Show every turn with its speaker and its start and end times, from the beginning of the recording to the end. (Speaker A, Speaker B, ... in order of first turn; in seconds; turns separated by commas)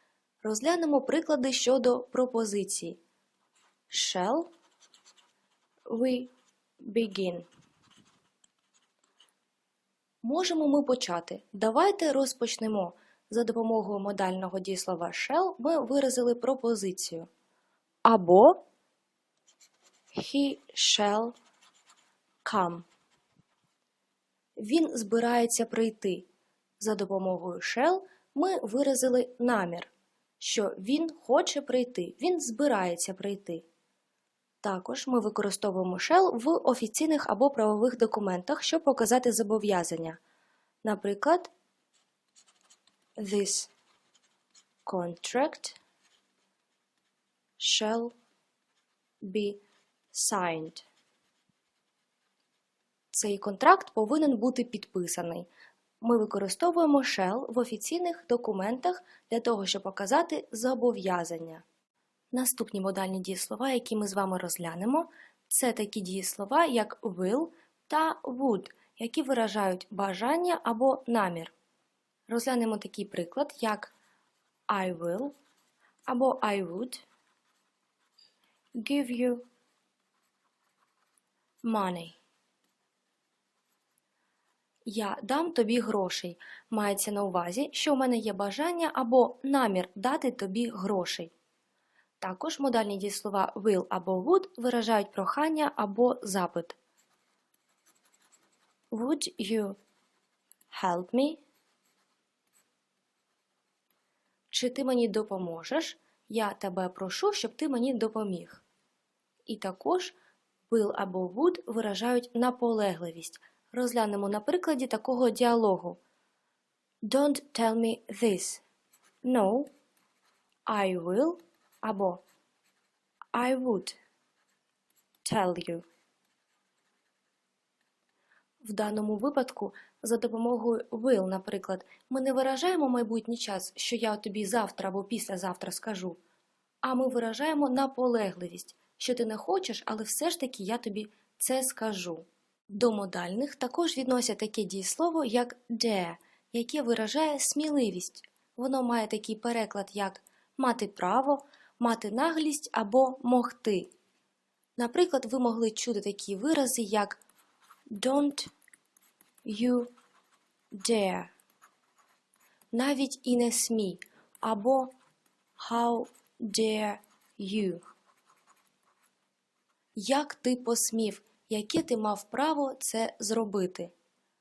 Speaker A: 0.4-3.0, Speaker A: 3.9-4.5, Speaker A: 5.9-7.5, Speaker A: 10.2-17.3, Speaker A: 18.0-18.6, Speaker A: 20.1-21.3, Speaker A: 22.4-22.9, Speaker A: 24.6-26.3, Speaker A: 26.8-33.6, Speaker A: 34.6-40.2, Speaker A: 40.8-41.5, Speaker A: 43.2-43.7, Speaker A: 44.9-45.8, Speaker A: 47.6-48.1, Speaker A: 49.2-49.6, Speaker A: 50.1-50.9, Speaker A: 53.1-55.5, Speaker A: 56.0-61.6, Speaker A: 62.3-71.5, Speaker A: 72.3-73.9, Speaker A: 74.7-75.3, Speaker A: 76.1-77.1, Speaker A: 78.8-79.4, Speaker A: 81.6-82.2, Speaker A: 84.8-91.3, Speaker A: 92.2-96.8, Speaker A: 98.9-99.8, Speaker A: 100.7-101.4, Speaker A: 104.5-108.6, Speaker A: 109.5-110.2, Speaker A: 110.7-116.0, Speaker A: 117.0-118.6, Speaker A: 119.2-119.7, Speaker A: 120.7-122.2, Speaker A: 123.3-124.0, Speaker A: 125.2-125.8, Speaker A: 128.6-136.2, Speaker A: 136.8-153.9, Speaker A: 154.8-157.2, Speaker A: 157.9-158.5, Speaker A: 159.4-159.9, Speaker A: 160.7-161.3, Speaker A: 162.7-164.9, Speaker A: 165.6-167.8, Speaker A: 169.9-173.9